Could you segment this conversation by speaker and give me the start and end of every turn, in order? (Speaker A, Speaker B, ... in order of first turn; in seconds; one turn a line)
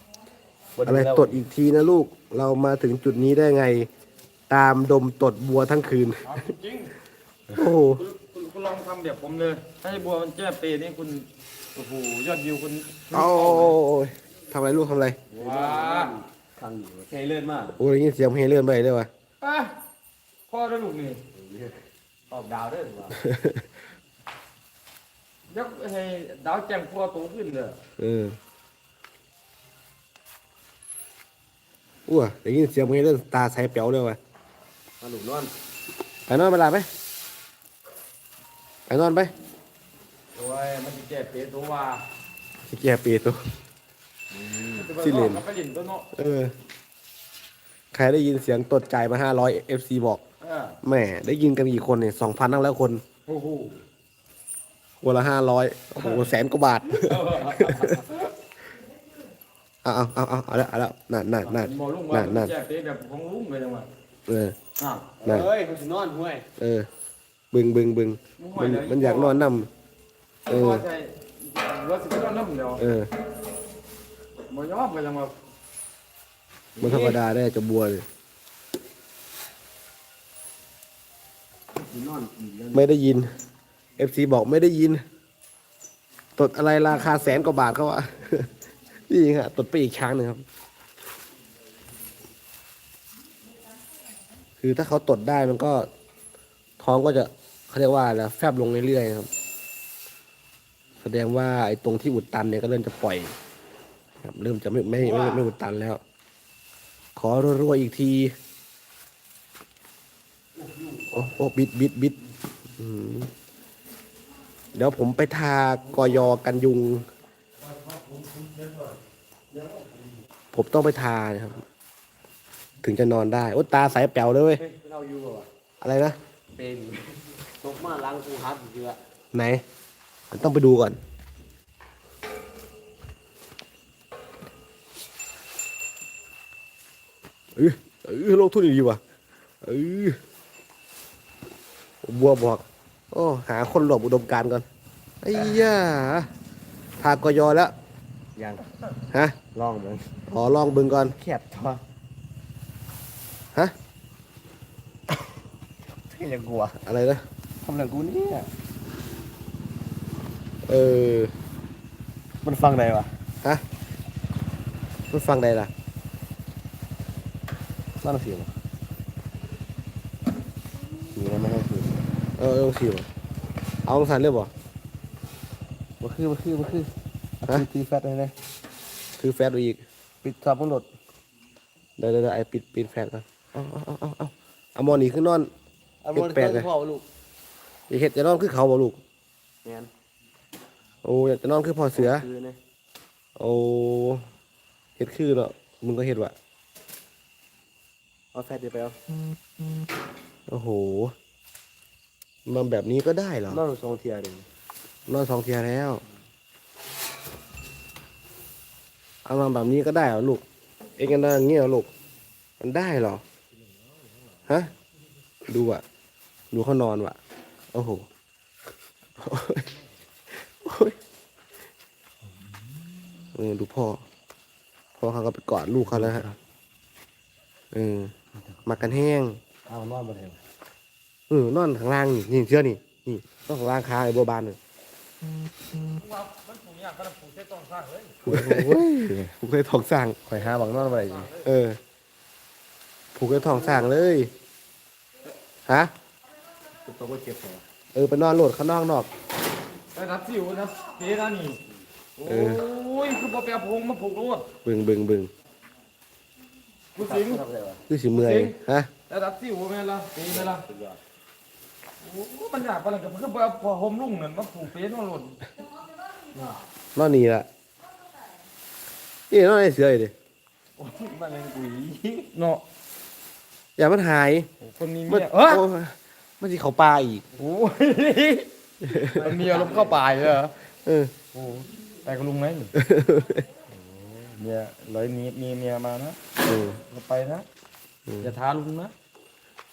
Speaker A: 0.8-1.4
Speaker B: 0.8-3.9
Speaker B: 4.5-6.4
Speaker C: 6.2-6.9
Speaker B: 7.5-8.0
Speaker C: 7.8-13.8
Speaker B: 13.1-15.2
Speaker A: 15.3-17.8
Speaker C: 15.4-16.1
Speaker B: 17.8-19.1
Speaker C: 19.4-19.8
Speaker C: 20.5-21.2
Speaker A: 21.3-23.2
Speaker B: 23.2-23.6
Speaker C: 25.5-27.8
Speaker B: 28.0-28.4
Speaker B: 32.0-34.2
Speaker A: 35.0-35.5
Speaker B: 36.3-36.9
Speaker B: 38.9-39.3
Speaker C: 40.3-42.0
Speaker B: 42.6-43.4
Speaker A: 44.3-45.0
Speaker C: 44.7-46.1
Speaker B: 45.0-45.4
Speaker B: 46.1-46.5
Speaker B: 47.9-50.2
Speaker C: 50.4-50.8
Speaker B: 50.8-53.0
Speaker C: 53.2-53.8
Speaker B: 55.0-58.0
Speaker C: 56.0-56.2
Speaker C: 56.9-58.2
Speaker B: 59.8-62.5
Speaker C: 61.5-63.9
Speaker B: 64.3-64.5
Speaker C: 64.8-65.1
Speaker A: 65.2-66.5
Speaker B: 65.2-65.5
Speaker B: 66.6-66.9
Speaker B: 67.5-69.7
Speaker C: 68.4-69.4
Speaker C: 70.5-72.9
Speaker B: 70.5-70.8
Speaker B: 72.8-73.1
Speaker C: 74.5-75.3
Speaker A: 76.8-77.2
Speaker B: 76.8-78.0
Speaker A: 81.7-82.9
Speaker B: 82.7-83.3
Speaker B: 84.0-85.0
Speaker B: 86.3-88.5
Speaker B: 89.1-90.4
Speaker B: 94.6-95.9
Speaker B: 96.8-99.3
Speaker B: 101.0-103.3
Speaker B: 104.2-106.0
Speaker B: 107.2-108.3
Speaker B: 111.1-112.2
Speaker B: 112.8-113.3
Speaker B: 114.7-117.1
Speaker A: 118.1-118.8
Speaker B: 120.5-121.6
Speaker B: 122.8-124.6
Speaker A: 124.5-125.5
Speaker B: 125.8-126.2
Speaker A: 126.5-129.0
Speaker B: 129.3-129.6
Speaker B: 130.3-131.0
Speaker B: 137.6-139.0
Speaker B: 139.6-140.2
Speaker B: 142.0-144.7
Speaker B: 145.2-146.3
Speaker B: 147.0-147.7
Speaker A: 148.3-148.7
Speaker B: 149.1-149.4
Speaker A: 149.4-150.2
Speaker B: 150.3-151.2
Speaker A: 151.1-151.8
Speaker A: 155.9-156.8
Speaker B: 156.8-157.2
Speaker A: 157.6-158.5
Speaker B: 160.6-161.3
Speaker A: 162.4-163.1
Speaker B: 165.1-165.7
Speaker A: 168.0-168.5
Speaker A: 171.1-172.0
Speaker B: 172.4-173.1
Speaker B: 173.8-174.5
Speaker A: 176.0-178.3
Speaker B: 179.2-179.8
Speaker A: 180.2-180.8
Speaker B: 182.0-185.5
Speaker A: 186.0-187.0
Speaker B: 186.1-186.7
Speaker B: 187.9-189.0
Speaker A: 189.6-189.9
Speaker B: 191.0-192.3
Speaker A: 191.9-192.6
Speaker B: 193.3-194.2
Speaker B: 195.0-196.3
Speaker A: 198.3-199.0
Speaker B: 200.5-201.1
Speaker B: 202.4-203.6
Speaker A: 203.5-204.5
Speaker B: 205.1-206.0
Speaker B: 209.2-210.4
Speaker B: 211.0-211.9
Speaker B: 212.6-213.2
Speaker B: 215.5-215.8
Speaker B: 216.5-217.2
Speaker B: 217.7-218.1
Speaker B: 219.2-219.7
Speaker B: 220.3-221.0
Speaker B: 223.3-224.0
Speaker B: 225.0-226.3
Speaker A: 225.8-226.4
Speaker B: 227.7-228.1
Speaker A: 228.5-228.9
Speaker B: 228.7-229.4
Speaker A: 229.7-230.4
Speaker B: 231.3-234.6
Speaker C: 235.9-238.2
Speaker A: 238.2-239.3
Speaker B: 238.2-240.2
Speaker A: 240.2-241.3
Speaker C: 240.9-241.3
Speaker B: 241.4-241.8
Speaker B: 243.1-244.3
Speaker B: 245.7-245.9
Speaker A: 246.8-247.6
Speaker B: 247.9-249.1
Speaker C: 249.9-251.6
Speaker C: 252.2-254.5
Speaker B: 252.2-252.6
Speaker B: 254.6-255.3
Speaker C: 256.9-257.4
Speaker A: 257.0-257.8
Speaker B: 257.9-258.9
Speaker C: 258.1-258.6
Speaker C: 259.1-260.6
Speaker A: 260.2-261.0
Speaker C: 262.0-265.4
Speaker A: 266.3-266.6
Speaker B: 266.9-267.5
Speaker B: 269.3-270.1
Speaker A: 270.8-272.3
Speaker C: 272.3-272.6
Speaker B: 273.8-274.5
Speaker C: 274.6-275.6
Speaker B: 275.1-277.3
Speaker C: 277.4-278.5
Speaker B: 278.8-279.4
Speaker C: 279.0-280.6
Speaker A: 279.2-280.1
Speaker B: 280.8-281.1
Speaker C: 281.3-282.7
Speaker B: 282.8-283.5
Speaker C: 283.7-286.2
Speaker B: 286.4-286.8
Speaker C: 286.8-287.4
Speaker B: 288.1-288.3
Speaker C: 288.2-288.9